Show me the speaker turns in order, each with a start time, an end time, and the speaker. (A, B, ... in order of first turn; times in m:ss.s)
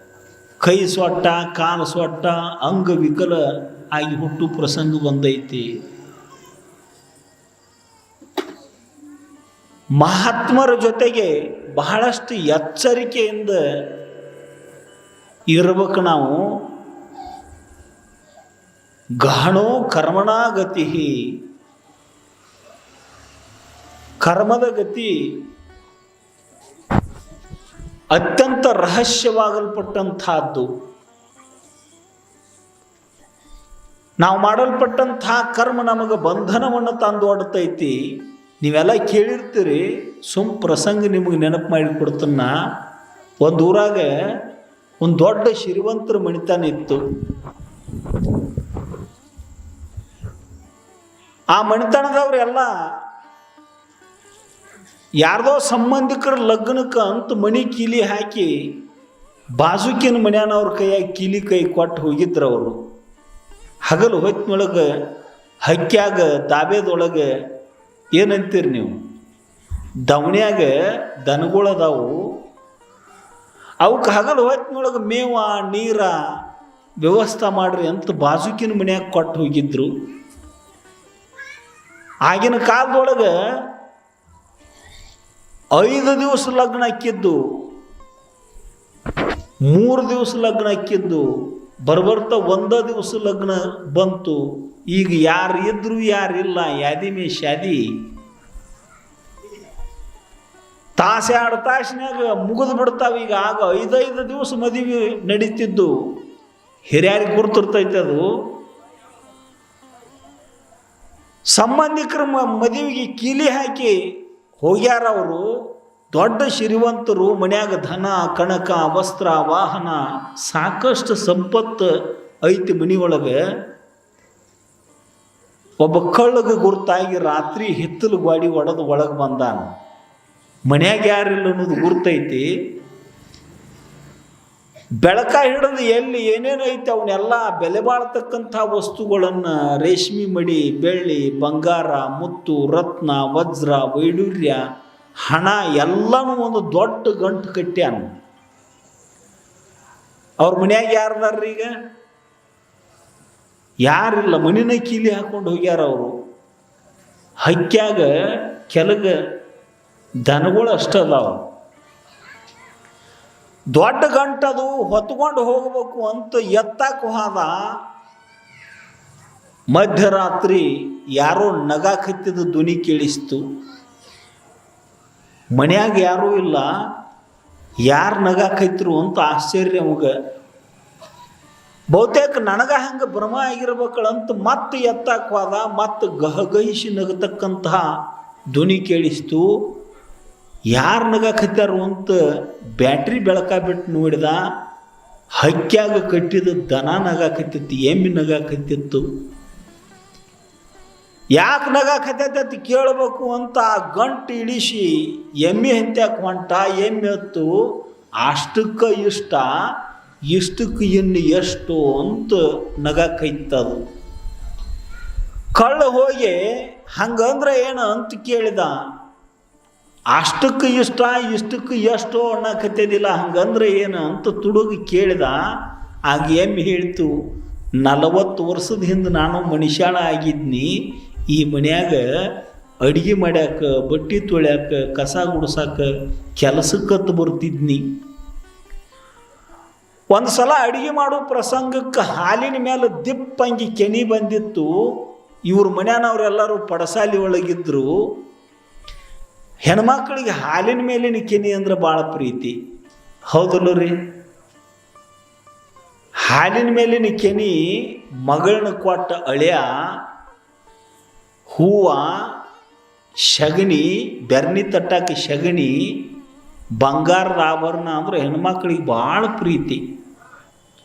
0:00.6-0:05.7 A
0:10.0-0:13.9 A
0:15.5-0:16.5 A
0:19.2-0:21.4 A
0:24.2-0:25.5 A
0:28.1-0:30.7 A
0:34.2-0:42.5 A
0:43.4-0:44.4 A
0:45.0-0:47.0 A
0:51.5-0:52.9 A
0:55.2-0:58.8 A
0:59.6-1:02.9 A
1:03.9-1:04.9 A
1:05.6-1:07.3 A
1:08.2-1:09.0 A
1:10.1-1:12.4 A
1:13.8-1:16.2 A
1:17.0-1:19.9 A
1:22.3-1:23.7 A
1:25.7-1:27.7 A
1:29.7-1:38.1 A
1:41.0-1:46.2 A
1:46.9-1:48.5 A
1:51.5-2:03.4 A
2:05.8-2:09.7 A
2:10.7-2:12.5 A
2:15.0-2:24.6 A
2:25.2-2:28.1 A
2:30.4-2:31.8 A
2:33.8-2:36.2 A
2:37.4-2:39.4 A
2:40.2-2:41.5 A
2:43.7-2:47.7 A
2:49.7-2:53.4 A
2:55.5-2:56.7 A
2:57.8-3:00.2 A
3:01.9-3:07.9 A
3:08.5-3:09.8 A
3:10.7-3:14.4 A
3:15.3-3:19.1 A
3:21.4-3:29.8 A
3:30.3-3:33.8 A
3:35.6-3:38.9 A
3:40.1-3:45.4 A
3:46.1-3:47.1 A
3:47.8-3:57.9 A
4:00.1-4:08.2 A
4:09.6-4:12.6 A
4:13.3-4:14.0 A
4:16.2-4:20.0 A
4:21.5-4:22.4 A
4:23.2-4:26.1 A
4:26.8-4:29.8 A